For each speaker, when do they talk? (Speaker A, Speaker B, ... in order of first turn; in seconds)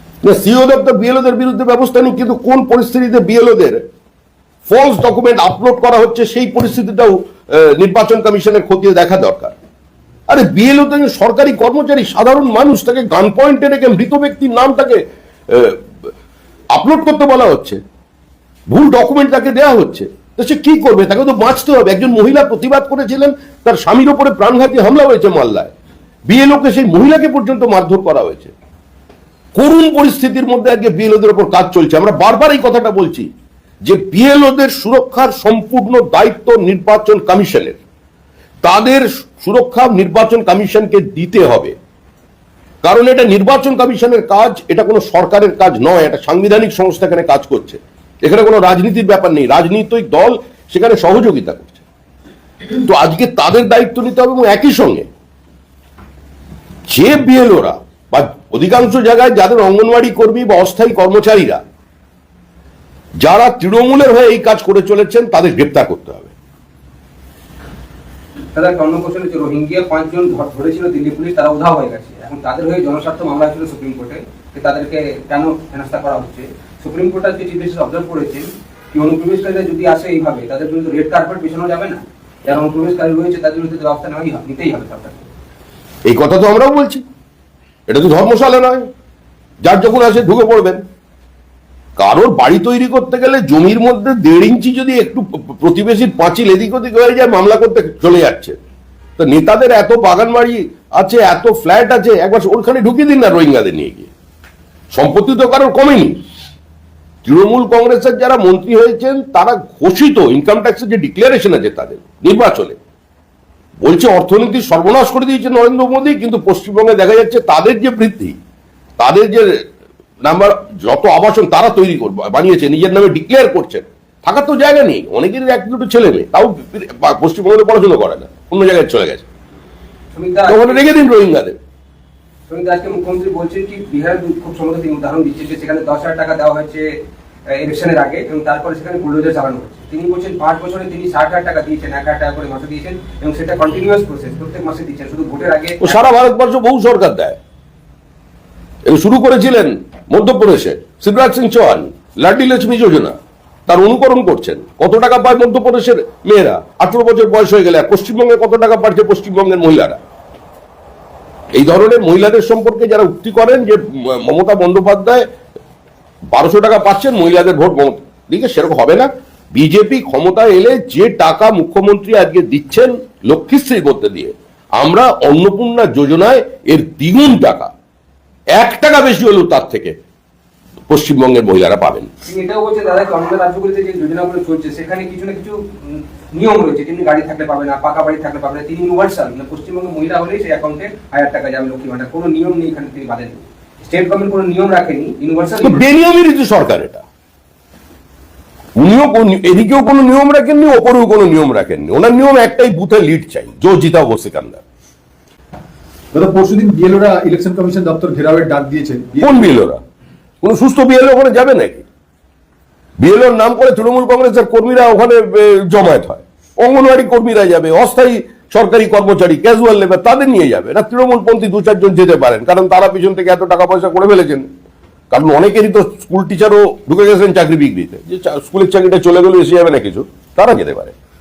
Speaker A: 0.2-3.8, 4.7-9.5, 10.3-16.1, 16.7-17.8, 18.7-25.7, 26.3-28.5, 29.6-33.3, 33.8-37.8, 38.6-41.7, 42.8-51.8, 52.8-55.1, 56.9-61.6, 63.2-66.3, 86.1-87.0, 87.9-88.9, 89.6-90.8, 92.0-98.6, 99.2-104.1, 104.9-106.2, 107.2-112.8, 113.8-118.4, 119.0-119.6, 120.2-129.2, 130.5-131.6, 145.8-147.4, 148.9-153.1, 153.7-160.0, 161.5-165.3, 166.3-177.7, 178.6-179.9, 180.9-182.1, 195.6-197.0, 198.8-204.6, 209.2-209.8, 210.4-211.9, 213.0-224.5, 225.1-230.9
Speaker B: 68.5-85.3, 130.1-130.8, 132.5-136.9, 137.5-146.0, 182.2-195.8
Speaker C: 206.1-209.5